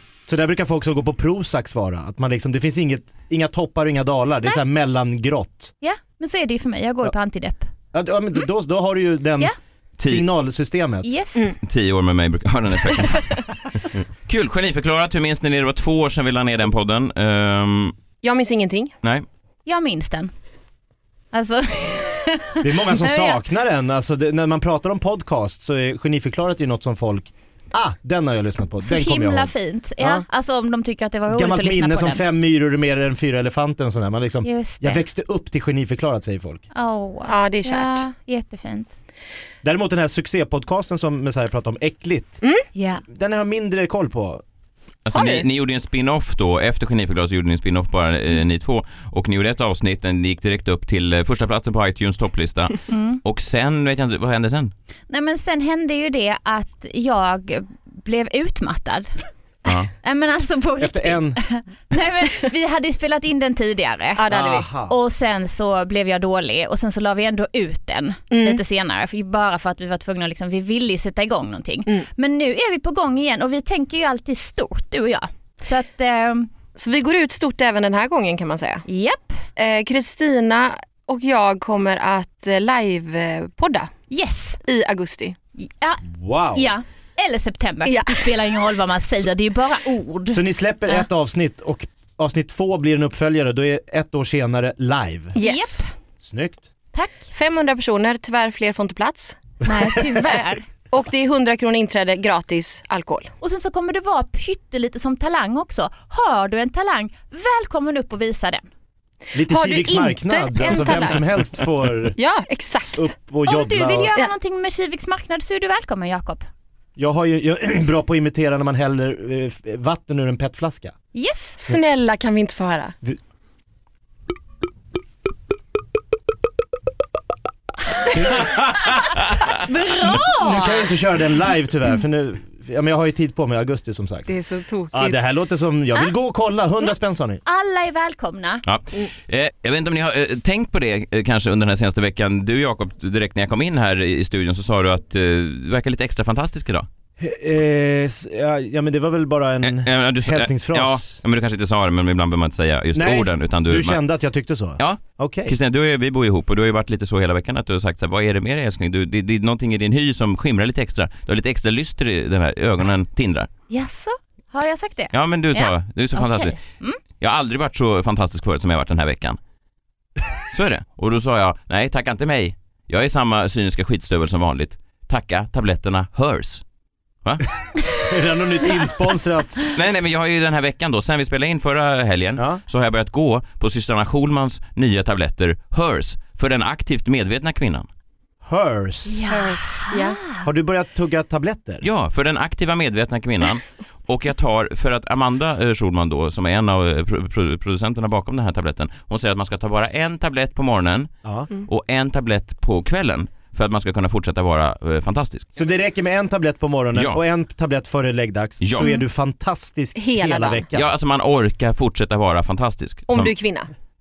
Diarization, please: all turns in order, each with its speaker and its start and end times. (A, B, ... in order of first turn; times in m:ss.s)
0:00.2-0:05.7 A
0:05.8-0:07.7 B
0:07.9-0:11.2 A
0:10.0-0:10.3 C
0:11.0-0:11.5 B
0:11.6-0:13.3 C
0:13.9-0:17.9 C
0:18.2-0:18.9 D
0:19.6-0:20.3 B
0:21.3-0:23.4 B
0:22.6-0:30.2 A
0:28.8-0:32.2 B
0:31.3-0:36.6 A
0:34.4-0:35.0 B
0:36.7-0:39.0 B
0:37.2-0:38.0 D
0:39.6-0:42.4 A
0:42.7-0:43.0 B
0:43.1-0:44.4 A
0:45.0-0:54.7 C
0:45.1-0:45.4 D
0:52.9-0:53.2 B
0:55.1-0:59.1 B
0:59.6-0:59.9 C
1:00.0-1:04.2 B
1:00.8-1:01.4 A
1:04.2-1:04.6 D
1:04.3-1:04.9 A
1:04.8-1:16.5 B
1:08.3-1:08.6 D
1:16.8-1:18.8 D
1:18.9-1:19.4 B
1:19.6-1:23.9 D
1:24.1-1:24.6 B
1:24.6-1:25.4 D
1:25.6-1:31.0 B
1:26.1-1:26.7 A
1:27.8-1:28.3 D
1:30.3-1:35.4 A
1:35.3-1:35.8 D
1:35.4-1:35.9 B
1:36.2-1:36.7 A
1:36.9-1:37.3 B
1:37.3-1:39.4 D
1:39.6-1:40.6 B
1:40.9-1:43.3 D
1:43.4-1:48.6 B
1:49.3-1:52.2 A
1:49.4-1:51.2 D
1:52.1-1:53.1 D
1:52.9-1:54.1 A
1:53.4-1:56.4 B
1:57.0-2:00.9 A
2:01.1-2:01.6 B
2:01.6-2:02.9 D
2:08.1-2:08.9 A
2:09.5-2:10.9 B
2:10.1-2:14.3 A
2:14.3-2:15.2 D
2:14.9-2:17.4 A
2:17.4-2:18.6 B
2:18.6-2:26.9 C
2:27.2-2:31.2 A
2:29.6-2:34.0 C
2:32.9-2:35.5 A
2:34.8-2:43.5 C
2:43.7-2:47.0 B
2:45.1-2:46.6 C
2:47.2-2:49.4 C
2:50.5-2:56.6 C
2:58.0-2:59.6 A
2:59.7-3:07.9 C
3:02.4-3:02.6 A
3:08.4-3:09.8 A
3:09.1-3:10.5 B
3:09.9-3:10.2 D
3:10.4-3:11.8 A
3:11.8-3:21.1 C
3:21.6-3:25.5 C
3:25.6-3:30.9 A
3:26.9-3:27.2 C
3:28.6-3:28.9 C
3:30.0-3:30.6 D
3:30.7-3:33.3 C
3:33.1-3:33.7 D